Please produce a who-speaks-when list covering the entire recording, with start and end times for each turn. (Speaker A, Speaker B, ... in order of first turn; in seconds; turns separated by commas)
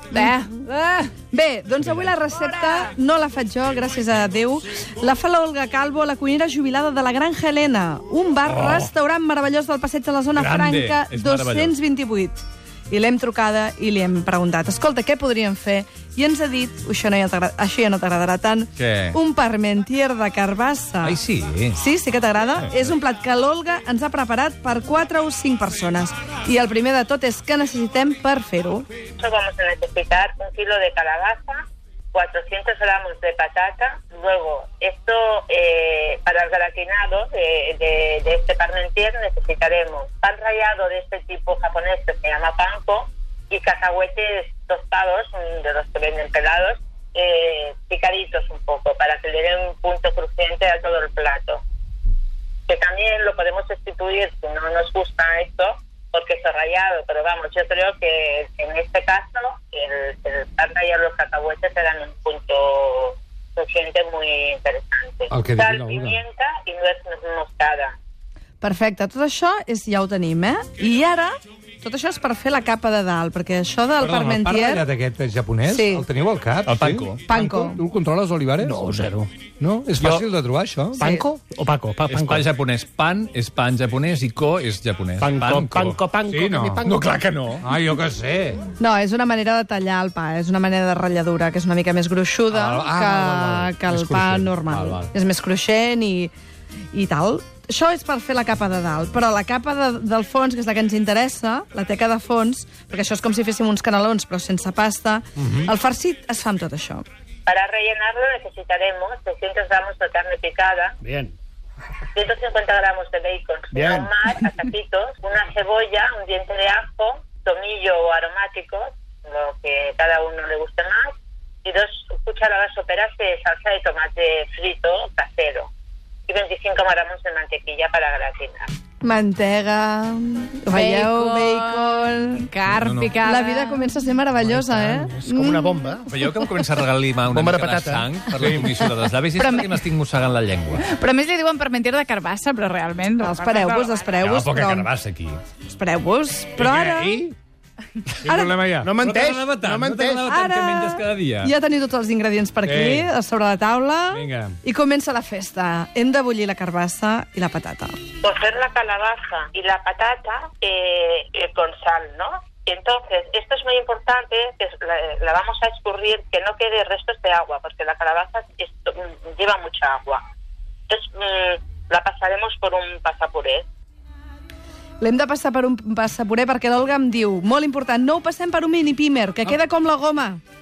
Speaker A: 0.1-0.5, Speaker B: 0.1-21.2, Speaker C: 8.4-8.9, Speaker C: 10.3-11.8, Speaker C: 18.8-19.2, Speaker C: 21.0-21.8, Speaker B: 21.8-28.9, Speaker D: 29.2-51.6, Speaker D: 52.7-67.9, Speaker E: 65.3-66.2, Speaker B: 68.6-74.8, Speaker E: 74.0-78.8, Speaker B: 75.7-76.0, Speaker C: 76.7-77.2, Speaker B: 77.3-77.8, Speaker F: 78.6-79.3, Speaker E: 79.6-81.0, Speaker F: 80.0-80.2, Speaker F: 81.0-82.5, Speaker C: 82.1-86.0, Speaker F: 85.2-87.0, Speaker E: 86.3-86.8, Speaker C: 86.8-87.7, Speaker E: 87.6-88.6, Speaker B: 88.8-96.3, Speaker E: 92.5-95.1, Speaker B: 96.9-107.0, Speaker D: 107.5-111.0, Speaker F: 111.0-111.3, Speaker D: 112.1-125.7, Speaker F: 113.7-114.1, Speaker D: 126.3-128.7, Speaker B: 129.0-132.5, Speaker A: 130.7-133.9, Speaker C: 132.8-133.2, Speaker B: 133.2-135.8, Speaker F: 134.4-136.1, Speaker C: 136.1-140.8, Speaker F: 137.3-138.1, Speaker E: 138.4-138.8, Speaker A: 139.3-139.8, Speaker A: 140.8-143.9, Speaker B: 143.2-144.9, Speaker C: 144.2-145.4, Speaker B: 145.7-147.2, Speaker E: 146.6-147.3, Speaker E: 148.2-148.9, Speaker B: 148.2-148.6, Speaker F: 148.8-150.3, Speaker C: 149.0-151.5, Speaker B: 150.2-157.9, Speaker E: 152.6-153.1, Speaker E: 154.1-154.6, Speaker D: 158.2-170.2, Speaker D: 170.9-173.7, Speaker B: 175.0-180.4